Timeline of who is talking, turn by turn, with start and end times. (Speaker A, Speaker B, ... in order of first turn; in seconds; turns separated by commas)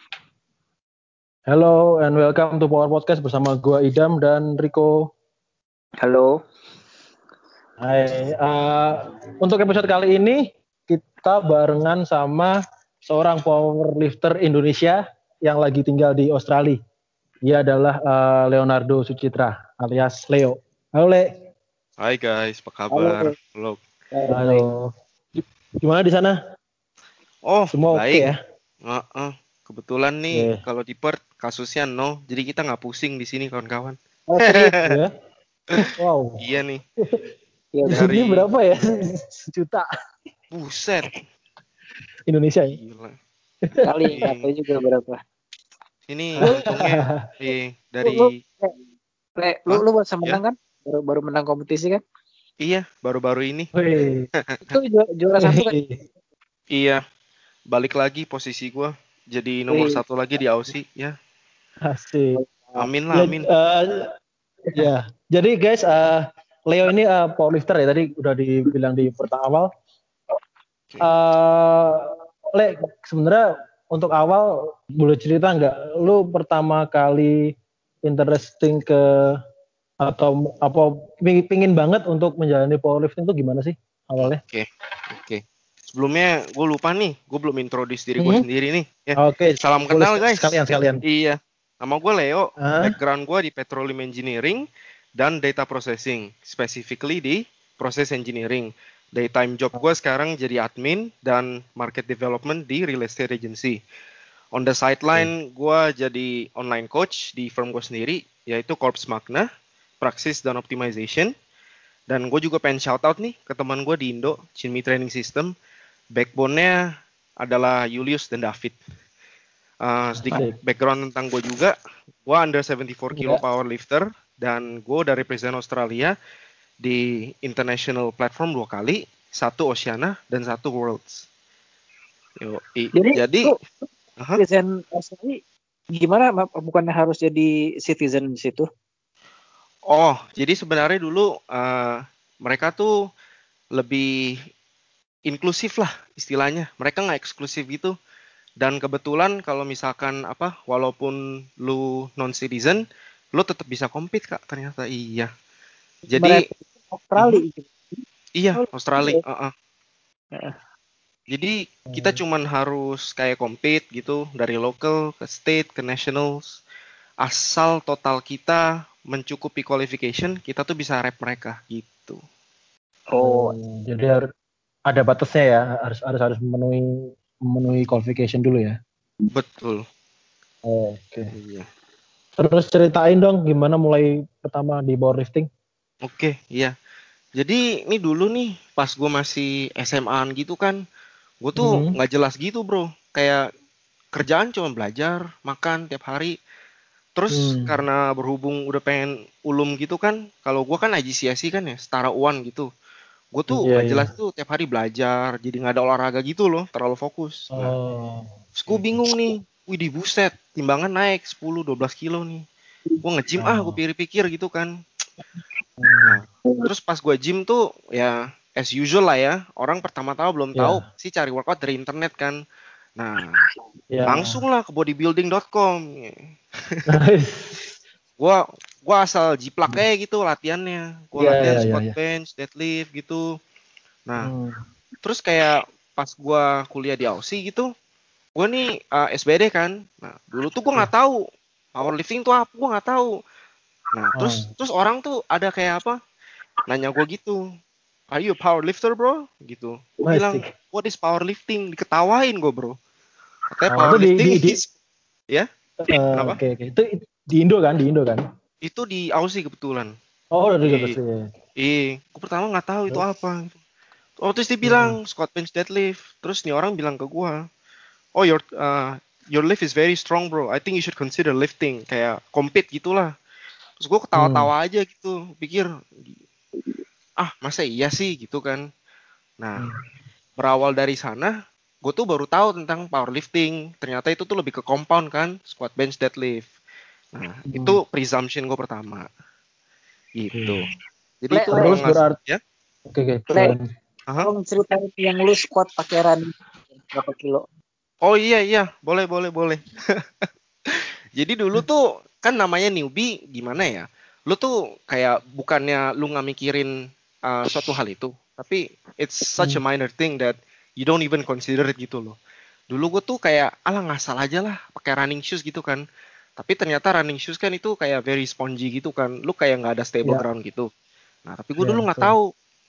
Speaker A: 1.5-5.1, Speaker B: 6.0-6.4, Speaker A: 7.8-16.8, Speaker A: 17.4-21.3, Speaker C: 22.0-23.8, Speaker B: 22.9-23.3, Speaker B: 24.1-24.7, Speaker A: 24.3-26.4, Speaker C: 27.5-28.3, Speaker A: 27.7-28.4, Speaker C: 28.8-34.9, Speaker A: 30.3-30.6, Speaker B: 34.3-34.7, Speaker A: 34.8-35.1, Speaker A: 35.8-36.5, Speaker C: 36.4-36.8, Speaker B: 37.7-38.1, Speaker A: 37.9-39.9, Speaker C: 37.9-38.5, Speaker C: 40.5-41.1, Speaker A: 42.3-42.8, Speaker C: 42.7-43.2, Speaker A: 43.7-44.1, Speaker B: 43.8-45.2, Speaker C: 44.2-44.5, Speaker C: 46.1-48.4, Speaker A: 46.4-47.1, Speaker B: 48.0-48.8, Speaker B: 49.4-52.0, Speaker C: 49.7-50.4, Speaker C: 52.6-53.7, Speaker A: 53.7-54.3, Speaker C: 54.4-54.8, Speaker B: 54.7-55.8, Speaker A: 55.4-56.0, Speaker C: 56.7-57.0, Speaker C: 57.7-61.1, Speaker B: 59.7-60.0, Speaker A: 61.9-62.4, Speaker C: 62.8-63.5, Speaker A: 63.1-64.1, Speaker A: 64.7-69.7, Speaker A: 71.0-79.4, Speaker A: 80.0-84.4, Speaker C: 84.2-103.8, Speaker A: 88.2-88.5, Speaker A: 89.2-91.0, Speaker A: 92.6-93.0, Speaker C: 104.5-109.5, Speaker C: 110.0-111.3, Speaker C: 112.1-115.5, Speaker C: 116.1-116.8, Speaker C: 117.4-118.8, Speaker C: 119.8-126.1, Speaker A: 120.2-120.6, Speaker A: 123.1-123.4, Speaker C: 126.8-131.3, Speaker C: 132.4-133.5, Speaker B: 132.9-133.6, Speaker B: 134.4-135.4, Speaker B: 135.9-138.7, Speaker C: 139.9-142.9, Speaker C: 143.8-144.4, Speaker C: 145.3-147.9, Speaker C: 148.6-155.3, Speaker C: 156.1-156.5, Speaker B: 156.1-158.0, Speaker C: 158.4-159.5, Speaker B: 158.5-159.2, Speaker C: 161.3-166.6, Speaker A: 161.9-162.2, Speaker C: 167.2-172.2, Speaker B: 173.1-173.5, Speaker A: 173.2-174.2, Speaker A: 174.9-178.8, Speaker C: 179.3-179.8, Speaker A: 180.7-181.3, Speaker C: 181.3-181.7, Speaker A: 182.4-185.5, Speaker C: 186.0-186.7, Speaker C: 187.4-190.8, Speaker C: 191.4-193.5, Speaker A: 191.6-192.0, Speaker C: 194.1-196.3, Speaker C: 197.2-202.7, Speaker A: 197.3-197.8, Speaker C: 203.3-207.7, Speaker A: 203.5-204.1, Speaker A: 207.5-209.0, Speaker C: 208.6-212.4, Speaker C: 213.0-214.7, Speaker A: 213.4-213.8, Speaker A: 215.8-216.2, Speaker C: 216.1-222.4, Speaker C: 223.0-223.4, Speaker A: 223.9-224.4, Speaker C: 224.1-226.8, Speaker A: 226.9-227.7, Speaker C: 228.2-233.2, Speaker A: 231.2-231.9, Speaker A: 234.2-234.6, Speaker C: 235.0-237.7, Speaker C: 238.4-241.2, Speaker C: 241.7-243.1, Speaker C: 243.9-246.0, Speaker A: 244.2-244.5, Speaker C: 246.7-247.4, Speaker C: 248.1-252.8, Speaker A: 250.1-250.5, Speaker C: 253.5-254.7, Speaker A: 253.7-254.6, Speaker A: 255.9-258.2, Speaker C: 258.6-259.9, Speaker A: 260.4-261.3, Speaker C: 260.7-261.0, Speaker C: 261.6-263.6, Speaker C: 264.2-267.4, Speaker A: 264.6-265.0, Speaker C: 268.2-273.1, Speaker C: 273.8-276.1, Speaker A: 274.2-274.5, Speaker C: 277.2-278.7, Speaker C: 279.4-279.6, Speaker C: 280.4-286.5, Speaker C: 287.1-289.1, Speaker A: 287.5-287.8, Speaker C: 290.2-290.7, Speaker A: 290.4-290.6, Speaker C: 291.2-292.4, Speaker B: 291.3-291.8, Speaker A: 291.5-292.2, Speaker A: 292.9-293.6, Speaker B: 294.2-297.4, Speaker C: 298.0-306.7, Speaker C: 307.2-312.2, Speaker C: 312.7-315.8, Speaker C: 316.4-320.7, Speaker C: 321.3-322.3, Speaker A: 321.6-322.2